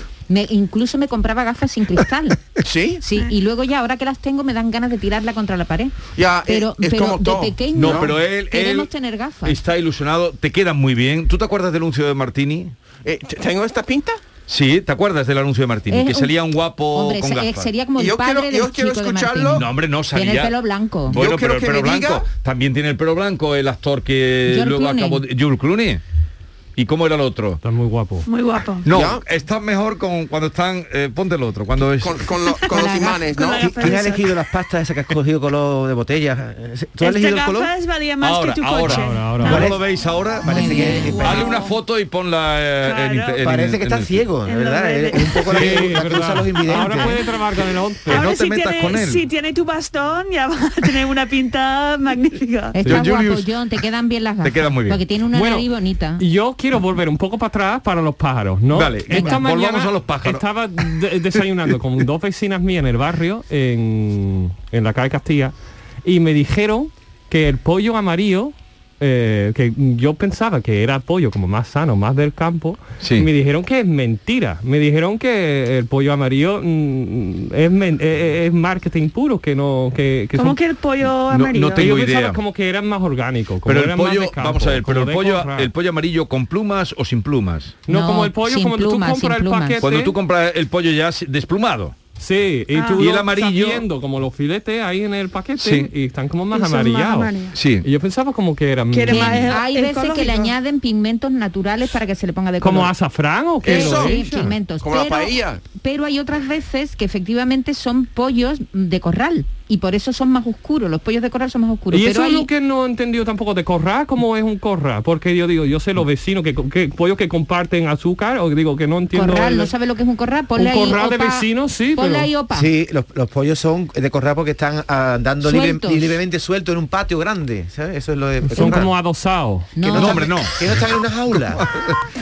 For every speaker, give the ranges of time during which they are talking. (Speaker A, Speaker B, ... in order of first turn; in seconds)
Speaker A: 0.3-2.5, 3.0-9.6, 15.9-21.2, 24.5-25.2, 32.7-33.2, 40.5-41.5, 52.8-56.2, 59.1-59.5, 87.9-89.9, 99.1-102.9, 103.6-112.5, 119.1-122.7, 125.4-126.1, 129.8-130.4
Speaker B: 2.6-3.0, 6.2-8.2, 13.1-14.2, 18.0-19.7, 21.1-22.3, 28.9-29.2, 32.0-33.9, 103.6-105.6
Speaker C: 7.7-8.9, 9.4-12.7, 14.5-17.7, 19.6-20.5, 21.1-26.0, 26.8-27.6, 28.9-32.2, 38.2-44.2, 48.1-49.2, 52.8-53.6, 54.4-55.0, 58.7-60.5, 73.0-73.3, 81.3-82.4, 83.7-87.8, 89.8-91.9, 93.0-93.8, 95.6-95.9, 97.5-97.9, 129.9-130.8, 131.5-132.0
Speaker D: 27.6-28.3, 38.8-39.6, 45.5-48.3, 55.3-80.6, 81.8-85.7, 87.9-90.1, 92.2-99.5, 102.6-104.5, 111.9-119.7, 120.6-122.3, 128.5-129.7
Speaker E: 28.3-28.9, 32.8-34.3, 37.0-39.7, 41.2-41.6, 42.8-43.4, 44.5-45.7, 48.1-52.8, 80.3-81.9, 92.7-93.0, 96.5-97.5, 98.9-100.5
Speaker F: 33.6-37.7, 39.4-39.9, 40.4-41.5, 43.4-47.2, 122.5-128.9, 129.9-131.6